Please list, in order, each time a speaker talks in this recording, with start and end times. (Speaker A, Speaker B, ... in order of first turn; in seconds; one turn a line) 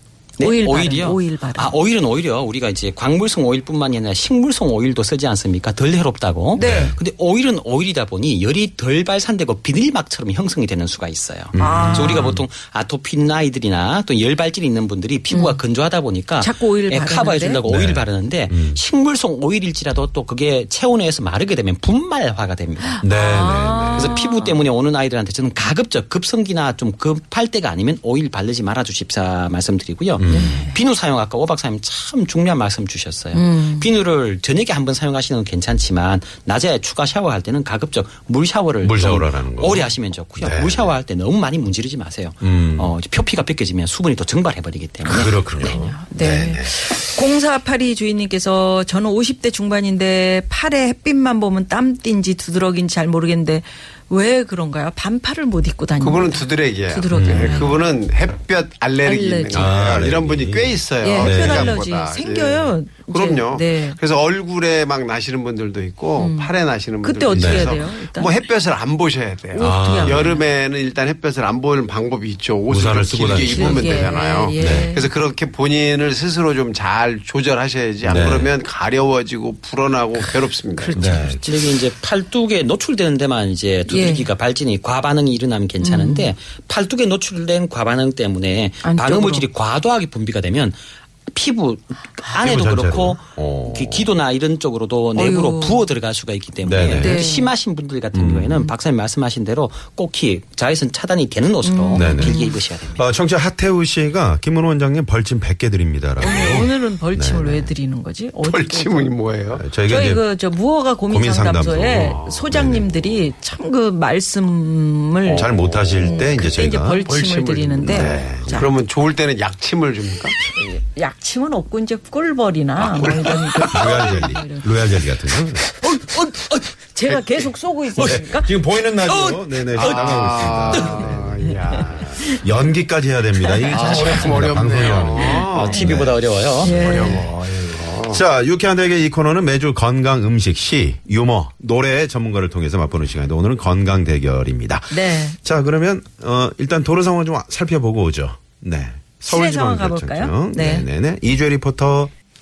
Speaker A: 0.4-23.0
Speaker B: 0.4-1.8
Speaker B: 6.6-6.9
Speaker C: 6.6-7.0
Speaker C: 11.5-12.4
Speaker B: 11.6-12.3
Speaker B: 15.3-15.6
Speaker B: 16.4-17.6
Speaker C: 17.7-18.8
Speaker B: 22.9-24.6
Speaker C: 23.0-24.1
Speaker A: 23.9-45.8
Speaker C: 30.2-30.7
Speaker B: 30.2-30.8
Speaker B: 33.3-33.9
Speaker C: 38.8-41.0
Speaker C: 42.4-42.9
Speaker C: 45.0-46.7
Speaker B: 45.5-57.9
Speaker D: 56.0-81.1
Speaker C: 57.1-57.8
Speaker B: 59.0-59.7
Speaker C: 59.5-61.8
Speaker B: 61.0-64.0
Speaker B: 66.2-68.3
Speaker C: 67.3-67.8
Speaker B: 69.5-70.5
Speaker C: 69.6-70.4
Speaker C: 72.7-74.9
Speaker B: 73.4-75.1
Speaker C: 78.0-78.5
Speaker B: 80.8-81.6
Speaker C: 80.9-81.5
Speaker A: 81.4-90.8
Speaker B: 83.9-84.3
Speaker B: 85.8-86.3
Speaker B: 88.8-89.5
Speaker A: 91.3-103.0
Speaker C: 92.3-94.1
Speaker B: 95.2-95.9
Speaker C: 96.7-97.2
Speaker B: 96.9-97.5
Speaker C: 98.1-98.7
Speaker B: 101.6-102.6
Speaker C: 101.9-107.7
Speaker B: 106.2-109.1
Speaker D: 108.4-109.6
Speaker C: 109.5-110.3
Speaker B: 109.9-118.7
Speaker C: 111.1-113.3
Speaker D: 112.0-112.5
Speaker D: 115.2-116.4
Speaker C: 115.3-117.0
Speaker D: 117.0-120.4
Speaker C: 117.8-118.7
Speaker B: 120.5-125.0
Speaker C: 122.8-125.6
Speaker A: 125.8-126.7
Speaker B: 126.0-128.5
Speaker C: 128.0-131.5
Speaker A: 129.0-131.1
Speaker D: 129.8-132.3
Speaker B: 131.0-132.4
Speaker C: 132.3-137.1
Speaker B: 133.4-134.0
Speaker D: 133.7-135.9
Speaker A: 133.7-136.8
Speaker B: 135.2-136.0
Speaker B: 136.6-137.3
Speaker D: 136.7-138.2
Speaker C: 138.1-152.1
Speaker B: 144.9-145.4
Speaker B: 149.2-150.9